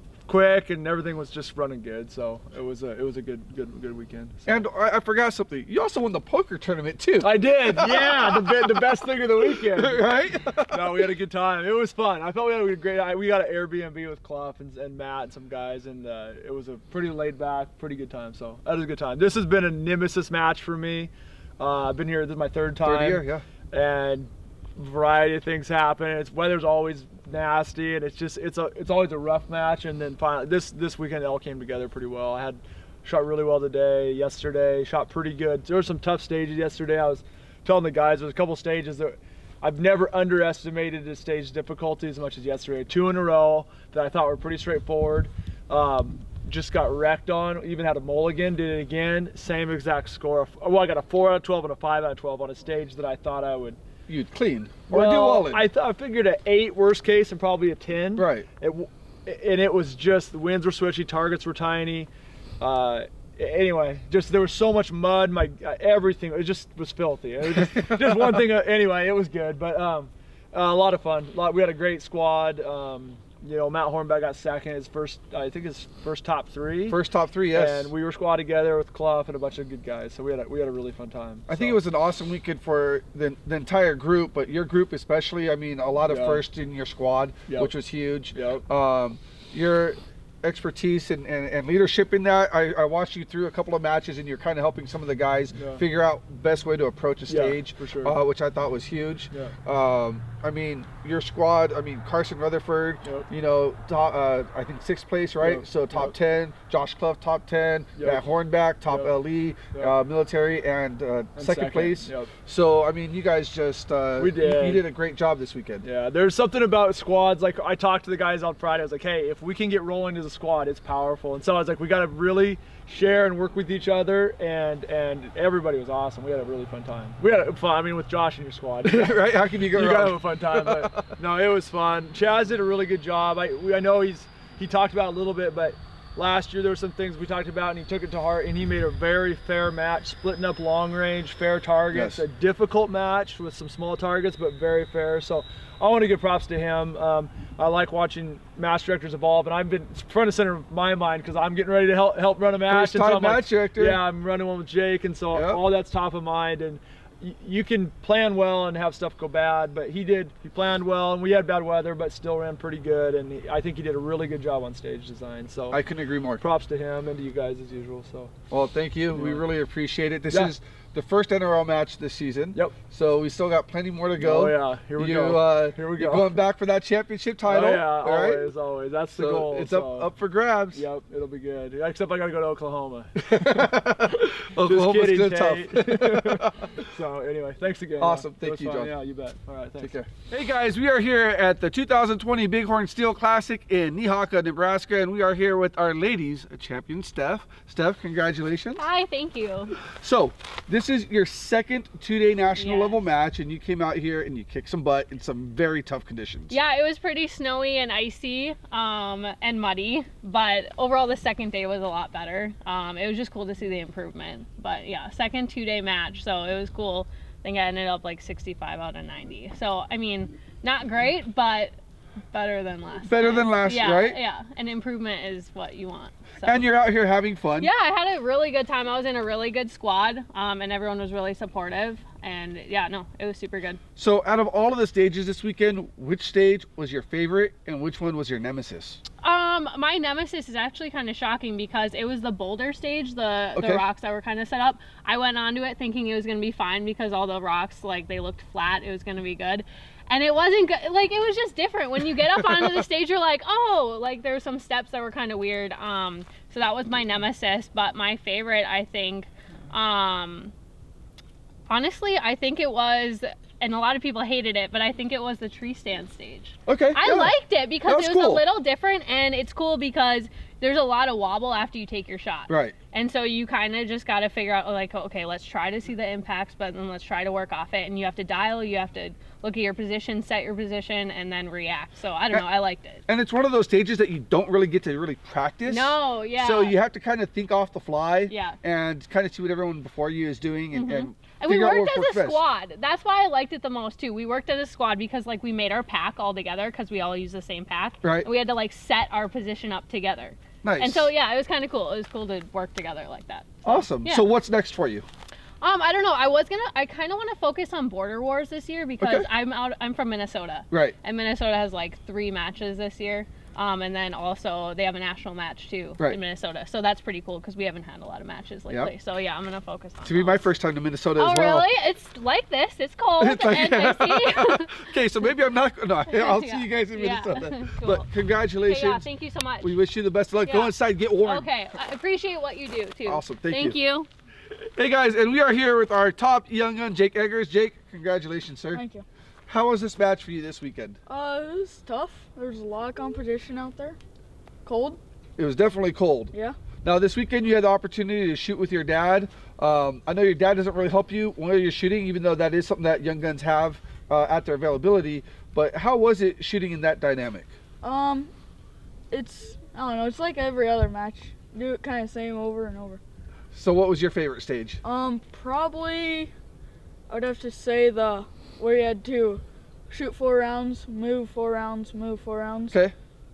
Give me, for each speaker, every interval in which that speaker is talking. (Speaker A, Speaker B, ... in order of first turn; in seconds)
Speaker A: 0.3-4.7, 7.2-53.8, 54.9-81.8, 86.1-86.5, 87.5-87.8, 88.3-88.7, 95.5-95.8, 97.3-98.2, 103.0-103.3, 105.4-106.2, 108.0-108.3, 108.8-110.0, 111.4-112.3, 114.2-114.9, 115.8-165.8, 166.4-168.3, 169.1-169.5, 170.3-170.6, 174.2-176.4, 177.4-180.1, 180.7-183.7, 184.6-190.0
Speaker B: 4.5-8.8, 9.4-11.1, 22.8-23.5, 54.1-55.7, 58.2-58.5, 67.4-68.4, 76.9-77.9, 81.5-115.9, 128.8-131.1, 141.9-142.2, 152.7-154.1, 155.3-155.7, 165.7-166.4, 168.5-178.5, 179.2-180.9, 183.2-186.5, 188.0-189.0, 189.8-198.8, 199.8-206.6, 223.0-224.2, 226.4-227.7, 234.0-239.0, 243.6-243.8, 252.0-252.9, 266.7-268.4, 272.5-272.8, 283.1-292.4, 298.0-298.3, 300.6-301.1, 303.6-305.1, 309.0-309.3, 310.7-311.0, 320.0-321.7, 323.2-329.1, 329.6-331.5, 333.1-333.8, 334.8-338.8, 339.5-341.0, 345.4-357.5, 363.5-364.8
Speaker C: 198.8-199.8, 202.6-203.0, 206.5-221.8, 222.3-226.6, 227.6-233.8, 239.2-260.5, 261.7-283.0, 285.7-286.8, 288.3-288.6, 290.7-304.3, 305.6-320.4, 321.2-324.9, 326.1-328.1, 328.6-329.8, 330.4-334.1
Speaker D: 338.7-339.1, 341.1-344.0, 344.6-345.0, 346.3-346.6, 357.8-358.3, 359.1-363.0, 364.8-366.3, 367.1-372.8